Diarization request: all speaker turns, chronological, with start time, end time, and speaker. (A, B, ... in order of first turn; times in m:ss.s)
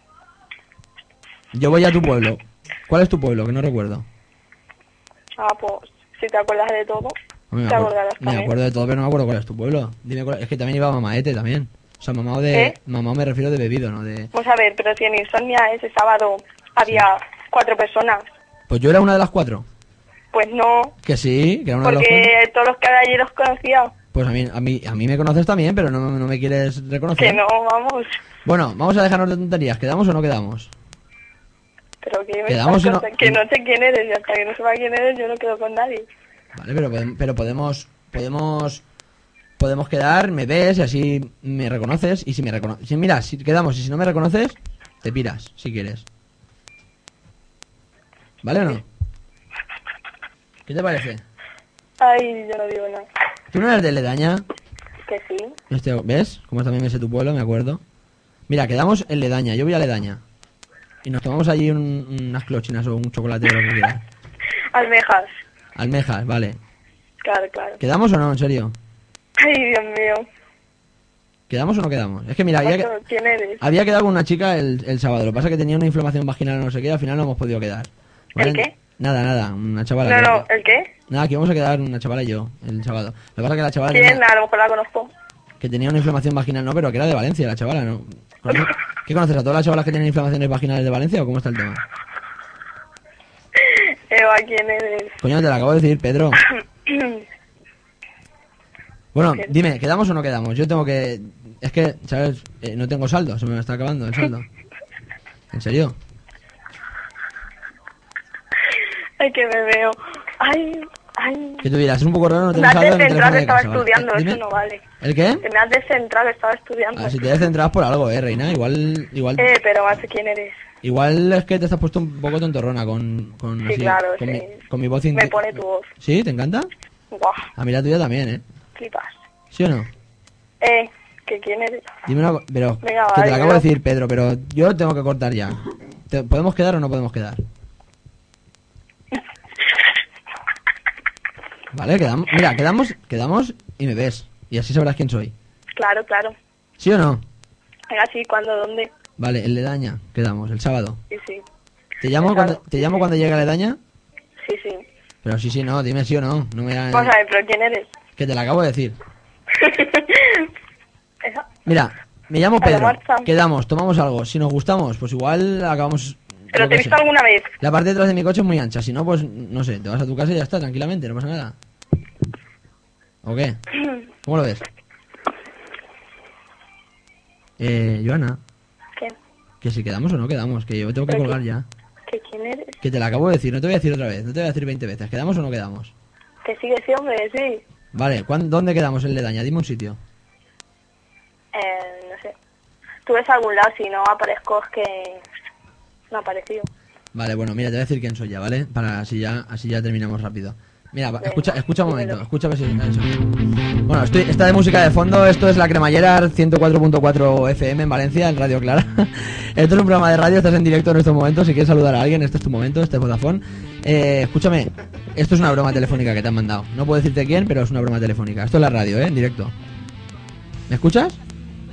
0:01.5-0:04.0 A
0:05.4-0:07.1 B
0:07.5-0:14.3 A
0:07.7-0:08.5 B
0:12.5-0:12.8 B
0:14.3-0:18.3 B
0:18.7-0:19.6 A
0:20.3-0:20.9 B
0:21.0-0:22.3 A
0:21.8-0:23.9 B
0:24.1-0:27.4 A
0:27.2-0:28.1 B
0:28.4-0:30.7 A
0:32.0-0:36.0 B
0:32.5-0:33.4 A
0:36.5-0:38.8 A
0:39.6-0:46.0 A
0:48.4-0:48.8 A
0:50.7-0:51.2 A
0:52.0-0:53.1 B
0:53.5-0:54.4 A
0:55.0-0:55.6 B
0:55.7-0:57.8 A
0:58.5-1:00.2 A
1:01.0-1:04.0 A
1:04.7-1:05.3 B
1:05.8-1:06.6 A
1:07.2-1:07.8 B
1:07.8-1:08.7 A
1:09.4-1:10.2 B
1:11.5-1:12.9 A
1:12.6-1:13.6 B
1:13.6-1:20.5 A
1:18.3-1:18.7 B
1:20.0-1:20.9 B
1:21.1-1:24.2 A
1:23.9-1:25.1 B
1:25.6-1:31.8 A
1:33.6-1:35.2 B
1:35.2-1:36.4 A
1:36.9-1:37.2 B
1:39.1-1:44.5 A
1:45.5-1:46.0 A
1:49.2-1:51.6 B
1:51.6-1:54.4 A
1:52.5-1:54.8 B
1:55.0-1:55.4 A
1:55.4-1:57.4 B
1:56.9-1:59.5 A
1:59.4-2:00.6 B
2:00.8-2:06.7 A
2:03.6-2:04.5 B
2:05.1-2:05.9 B
2:07.1-2:07.4 B
2:07.6-2:08.4 A
2:08.8-2:09.1 B
2:09.5-2:09.9 A
2:10.6-2:11.9 B
2:12.1-2:17.4 A
2:12.8-2:13.6 B
2:21.7-2:25.3 A
2:25.7-2:26.3 B
2:26.8-2:27.2 A
2:27.9-2:28.9 B
2:29.2-2:31.0 A
2:31.1-2:31.4 B
2:32.0-2:33.8 A
2:32.2-2:33.0 B
2:34.4-2:34.8 B
2:35.2-2:37.1 A
2:36.9-2:37.9 B
2:38.2-2:39.0 A
2:39.6-2:40.5 B
2:41.2-2:41.5 B
2:41.6-2:47.0 A
2:42.6-2:43.3 B
2:46.5-2:47.5 B
2:47.6-2:51.5 A
2:53.2-2:53.6 A
2:54.2-2:54.6 A
2:57.6-2:58.4 A
2:59.6-3:01.6 A
3:01.1-3:01.4 B
3:02.1-3:02.8 B
3:02.8-3:05.9 A
3:06.4-3:07.6 B
3:07.9-3:10.0 A
3:11.5-3:12.3 B
3:13.0-3:15.2 B
3:16.1-3:16.7 B
3:17.1-3:23.2 A
3:21.2-3:22.2 B
3:23.9-3:39.5 A
3:40.7-3:41.2 A